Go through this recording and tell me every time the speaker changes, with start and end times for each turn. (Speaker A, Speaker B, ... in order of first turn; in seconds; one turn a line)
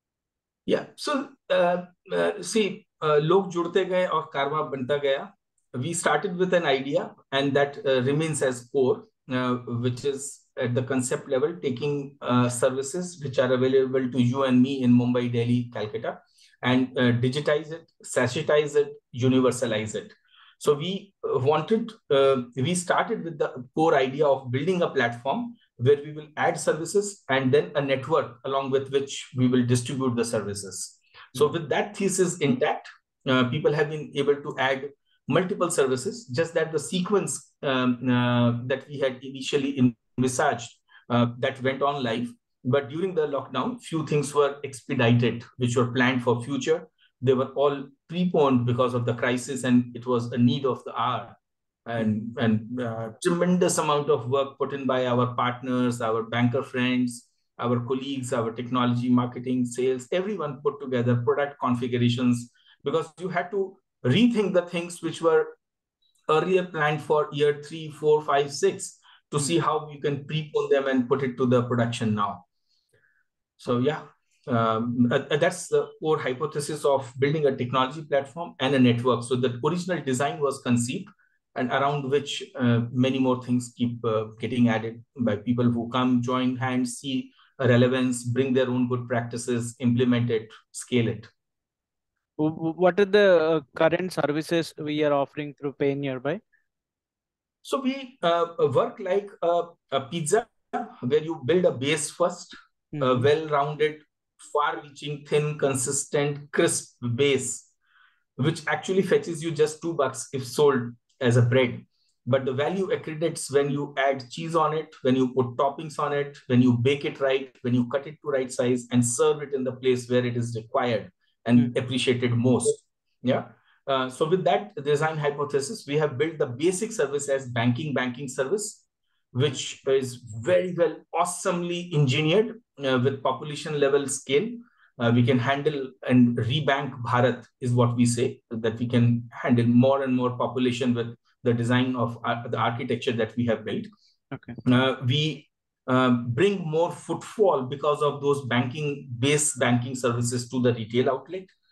Speaker A: 0.7-65.5
Speaker A: 66.3-72.4
Speaker A: 73.6-91.3
Speaker B: 92.4-96.4
Speaker A: 97.6-107.7
Speaker B: 102.9-103.3
Speaker A: 108.4-143.9
Speaker B: 144.3-144.6
Speaker A: 144.6-151.5